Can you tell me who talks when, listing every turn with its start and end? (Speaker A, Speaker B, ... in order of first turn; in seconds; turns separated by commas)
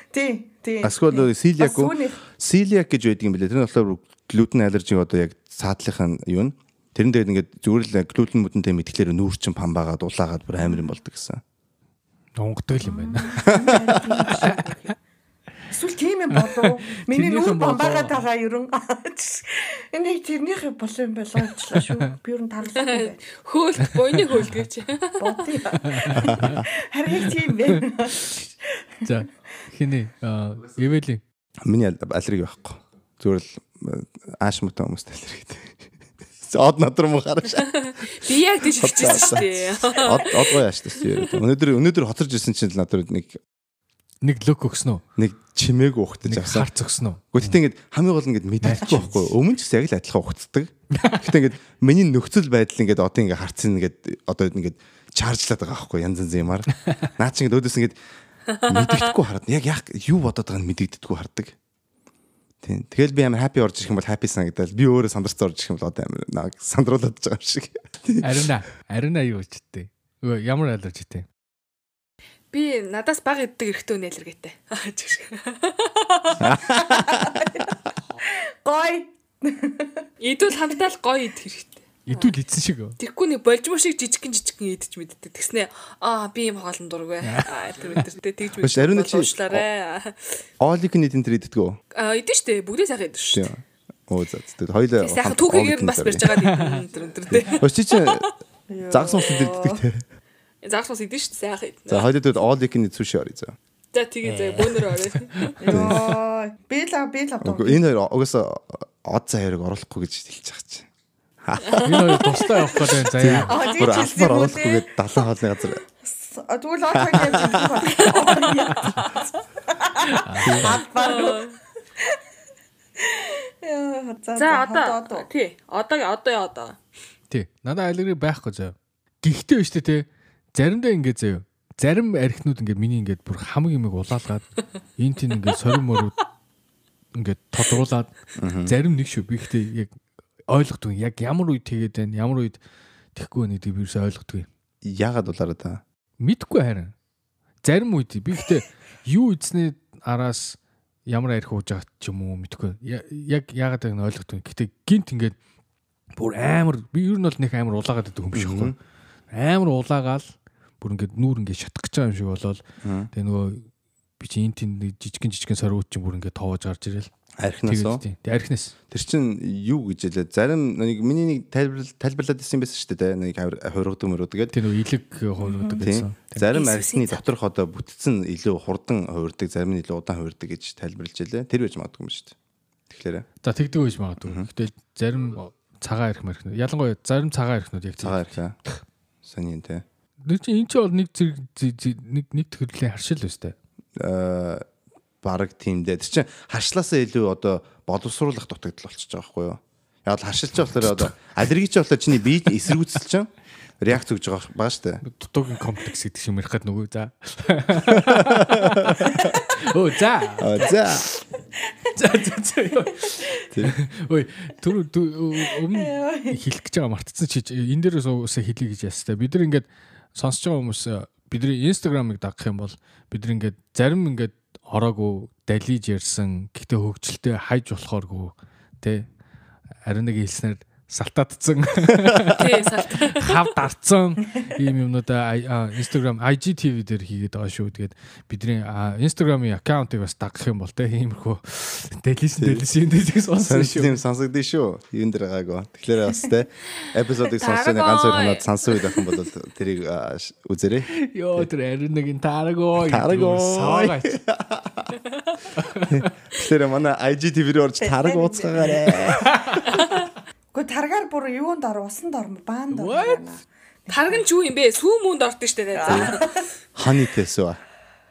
Speaker A: 0.1-2.2, Speaker B: 0.8-11.4, Speaker C: 12.4-13.6, Speaker A: 12.8-14.9, Speaker B: 13.4-14.4, Speaker C: 14.3-14.6, Speaker A: 15.7-23.2, Speaker C: 16.3-18.2, Speaker C: 21.6-22.1, Speaker D: 22.6-25.6, Speaker C: 23.9-24.6, Speaker A: 25.2-28.5, Speaker C: 25.9-26.6, Speaker B: 26.1-26.6, Speaker C: 27.2-28.4, Speaker C: 29.0-31.2, Speaker B: 31.6-35.8, Speaker B: 36.4-43.4, Speaker D: 37.7-41.4, Speaker C: 44.2-45.0, Speaker B: 45.2-46.7, Speaker C: 46.3-47.5, Speaker B: 47.3-58.0, Speaker C: 48.6-49.3, Speaker C: 50.9-51.3, Speaker D: 58.6-59.0, Speaker B: 58.6-61.5, Speaker B: 62.6-68.5, Speaker C: 68.2-71.3, Speaker D: 72.5-76.5, Speaker B: 76.4-77.4, Speaker A: 76.5-80.1, Speaker D: 80.2-82.3, Speaker C: 82.1-83.0, Speaker D: 83.0-90.4, Speaker C: 87.2-87.5, Speaker B: 88.6-89.6, Speaker B: 90.6-91.8, Speaker D: 91.9-93.5, Speaker B: 93.3-96.3, Speaker D: 95.0-98.3, Speaker C: 96.4-96.8, Speaker B: 97.3-98.3, Speaker A: 98.7-99.8, Speaker B: 98.9-100.0, Speaker D: 99.2-99.5, Speaker D: 100.6-102.1, Speaker B: 101.9-103.5, Speaker D: 103.9-105.5, Speaker C: 104.3-105.5, Speaker A: 105.6-107.8, Speaker B: 105.7-106.1, Speaker B: 107.4-110.9, Speaker B: 111.4-112.4, Speaker D: 111.6-112.5, Speaker C: 111.8-113.6, Speaker B: 113.2-115.8, Speaker A: 113.2-115.2, Speaker A: 116.0-122.2, Speaker B: 116.9-117.9, Speaker D: 118.0-119.2, Speaker C: 120.1-120.8, Speaker D: 120.7-121.6, Speaker A: 123.0-125.3, Speaker D: 124.4-126.8, Speaker C: 127.3-134.4, Speaker C: 135.0-136.2, Speaker C: 137.1-139.9, Speaker B: 138.4-138.7, Speaker C: 140.5-142.6, Speaker C: 143.1-144.5, Speaker B: 144.8-145.8, Speaker C: 146.2-146.9, Speaker C: 147.6-155.3, Speaker C: 156.2-158.7, Speaker B: 158.3-158.7, Speaker C: 159.3-163.7, Speaker B: 162.8-163.1, Speaker C: 164.2-167.1, Speaker B: 167.4-168.0, Speaker C: 167.6-168.7, Speaker B: 168.9-174.6, Speaker C: 174.5-176.5, Speaker A: 175.4-175.8, Speaker B: 175.8-182.3, Speaker D: 176.5-177.3, Speaker B: 182.9-183.3, Speaker C: 183.4-188.4, Speaker B: 188.0-188.6, Speaker B: 189.2-189.8, Speaker C: 190.2-193.6, Speaker B: 194.0-194.6, Speaker B: 195.2-203.3, Speaker C: 200.8-201.1, Speaker B: 203.8-205.0, Speaker C: 205.0-211.2, Speaker B: 207.9-209.4, Speaker B: 210.4-211.1, Speaker C: 211.9-229.1, Speaker B: 213.5-213.7, Speaker A: 215.7-216.4, Speaker C: 229.8-244.0, Speaker D: 232.3-233.4, Speaker B: 242.4-242.7, Speaker B: 243.4-251.5, Speaker D: 247.2-249.1, Speaker C: 250.9-254.2, Speaker B: 252.8-254.9, Speaker C: 255.6-256.1, Speaker B: 255.9-259.8, Speaker A: 257.8-259.0, Speaker C: 259.2-259.8, Speaker A: 260.5-264.3, Speaker C: 262.7-263.2, Speaker D: 263.9-266.4, Speaker A: 265.7-266.5, Speaker B: 265.9-266.2, Speaker B: 266.7-267.6